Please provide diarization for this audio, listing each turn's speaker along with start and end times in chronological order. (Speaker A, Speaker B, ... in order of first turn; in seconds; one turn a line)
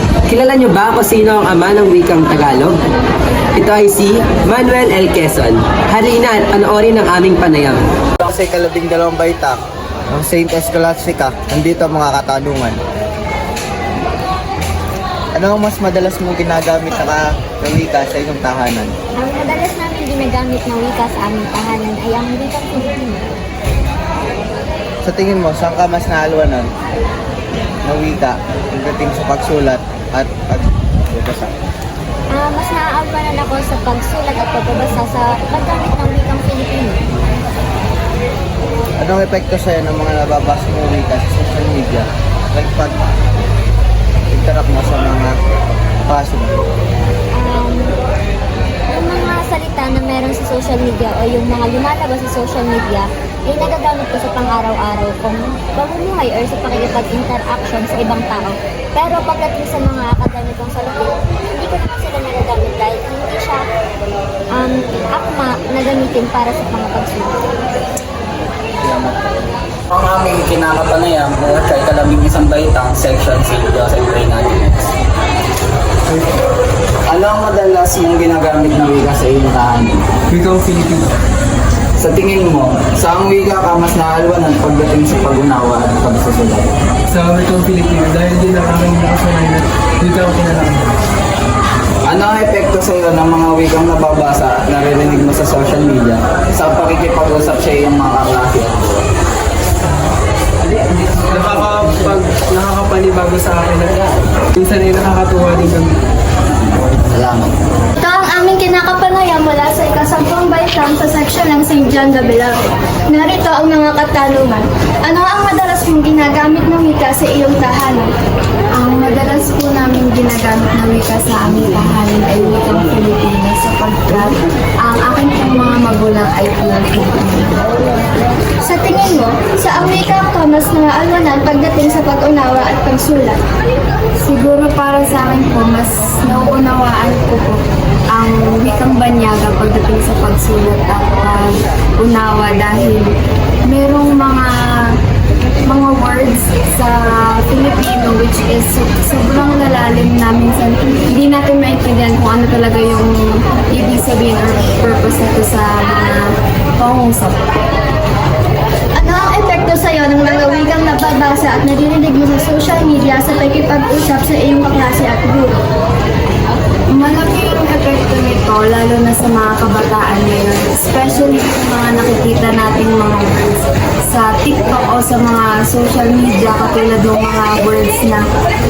Speaker A: 0.3-2.7
Speaker A: 3.6-7.8
Speaker B: 8.3-9.6
Speaker B: 10.1-12.8
Speaker B: 15.4-18.9
Speaker C: 19.2-23.3
Speaker B: 25.0-26.7
Speaker B: 27.9-31.5
Speaker C: 32.3-37.4
Speaker B: 39.0-42.9
Speaker B: 44.3-45.3
Speaker B: 46.1-46.6
Speaker C: 47.3-48.0
Speaker C: 48.9-63.7
Speaker C: 64.5-67.4
Speaker D: 68.8-69.4
Speaker D: 69.9-74.8
Speaker D: 77.1-80.0
Speaker E: 80.3-81.0
Speaker D: 82.0-86.7
Speaker E: 87.1-90.8
Speaker D: 92.1-99.0
Speaker E: 101.3-103.9
Speaker E: 104.6-105.8
Speaker D: 107.2-107.5
Speaker F: 108.0-118.1
Speaker G: 118.7-127.6
Speaker F: 128.6-133.4
Speaker G: 134.2-143.1
Speaker G: 143.7-144.5
Speaker G: 145.7-157.5
Speaker F: 159.0-165.6
Speaker G: 166.9-178.2